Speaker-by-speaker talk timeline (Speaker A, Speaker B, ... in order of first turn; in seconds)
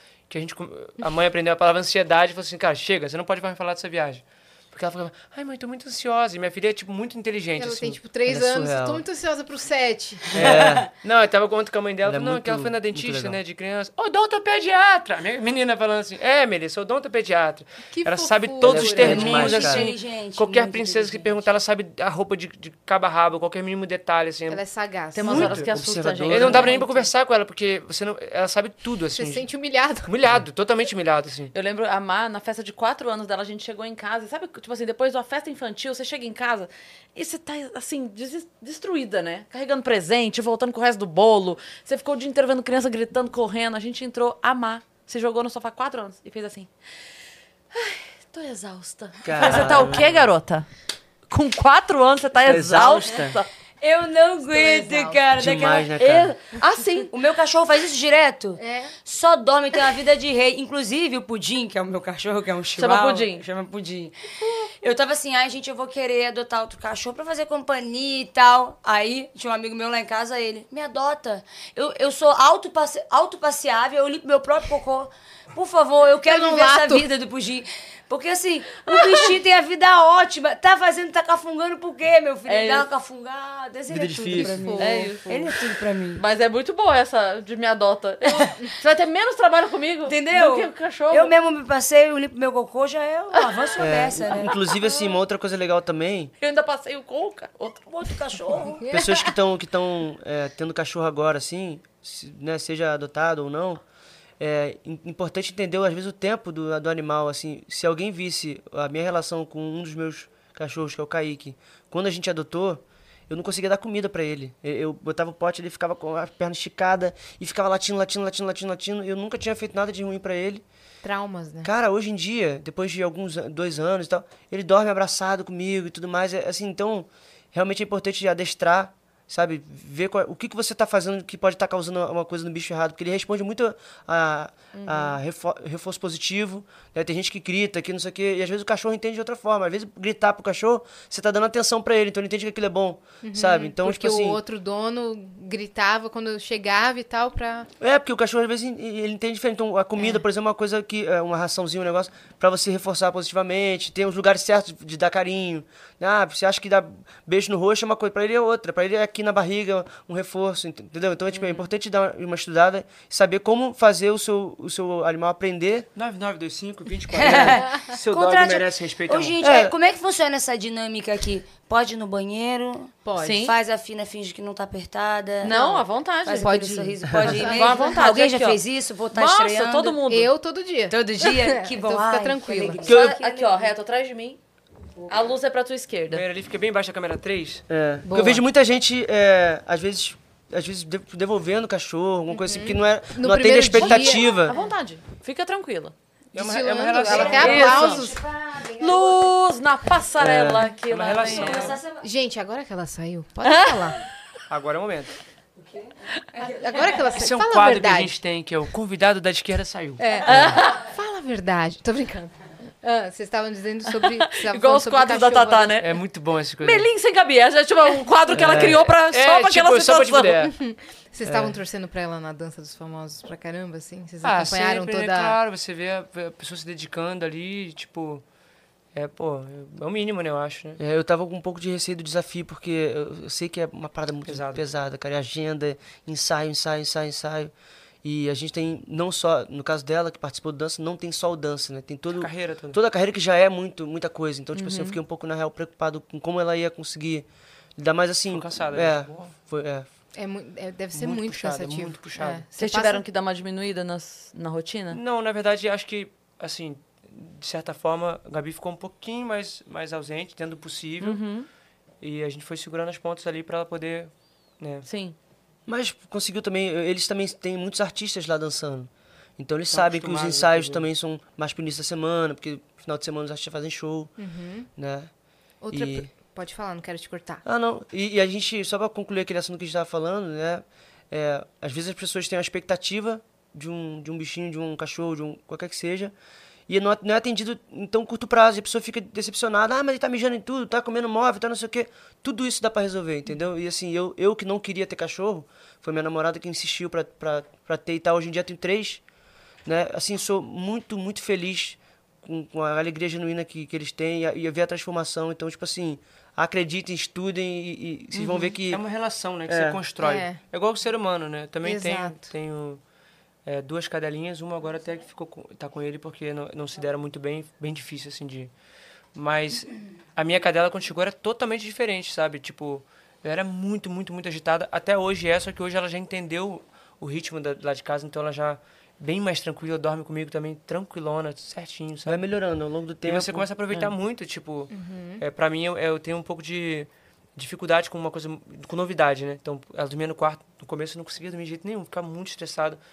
Speaker A: 0.3-8.0, 10.3-24.6, 25.3-25.7, 26.3-29.5, 30.1-31.5, 165.9-169.3, 186.1-187.7, 196.3-197.9, 200.9-201.8, 204.5-205.1, 207.2-210.4, 215.8-216.9, 218.3-220.5, 224.2-228.2, 228.9-230.8, 234.2-234.6, 242.2-242.8, 248.3-249.3, 250.9-252.4, 254.9-261.2, 262.0-264.9, 269.7-270.9, 308.7-312.8, 313.4-318.5, 319.1-332.2, 333.0-342.8
Speaker B: 7.5-10.4, 17.9-19.6, 24.5-25.5, 29.1-30.1, 54.5-55.3, 58.6-58.9, 76.3-77.0, 84.3-85.1, 98.9-99.2, 121.0-121.7, 143.2-147.7, 173.0-173.4, 175.4-175.8, 176.4-177.8, 180.0-182.8, 188.0-188.4, 192.3-194.6, 196.3-198.2, 202.0-204.0, 206.5-208.1, 210.0-215.8, 220.5-225.4, 250.1-253.0, 274.2-274.7, 275.6-277.4, 310.0-310.4, 311.6-312.3, 334.7-335.2
Speaker C: 8.3-9.0, 10.3-10.9, 12.0-13.4, 18.6-19.9, 25.2-26.7, 49.2-50.3, 52.4-53.4, 55.3-56.3, 83.9-84.6, 93.8-96.3, 98.9-103.8, 104.4-120.6, 121.6-144.4, 147.8-165.9, 169.4-169.7, 177.1-177.3, 182.8-183.1, 187.7-194.5, 200.2-200.6, 218.3-218.8, 221.2-221.6, 230.8-237.5, 238.0-249.9, 265.7-274.1, 274.8-275.1, 275.7-276.1, 277.4-286.1, 286.7-299.0, 299.6-308.8, 309.5-309.8, 332.1-333.5
Speaker D: 10.4-10.8, 19.0-21.4, 53.8-55.9, 57.1-64.1, 64.8-86.2, 90.0-94.6, 97.9-98.9, 167.1-175.6, 176.2-180.0, 180.9-183.7, 197.1-199.2, 201.2-202.0, 205.6-206.9
Speaker E: 25.1-27.0, 31.5-46.7, 47.7-50.7, 51.3-53.5, 56.0-57.1, 62.8-63.4, 82.5-82.9, 84.8-85.5, 86.1-91.3, 96.4-98.2, 134.7-135.2, 173.2-173.5, 175.4-178.6, 179.1-180.3, 182.8-184.4, 185.1-186.2, 193.7-195.9, 197.1-198.0, 198.8-201.8, 203.4-203.9, 210.2-210.8, 213.9-215.9, 216.6-220.5, 244.5-245.0, 252.6-255.0, 261.0-261.5, 264.9-265.1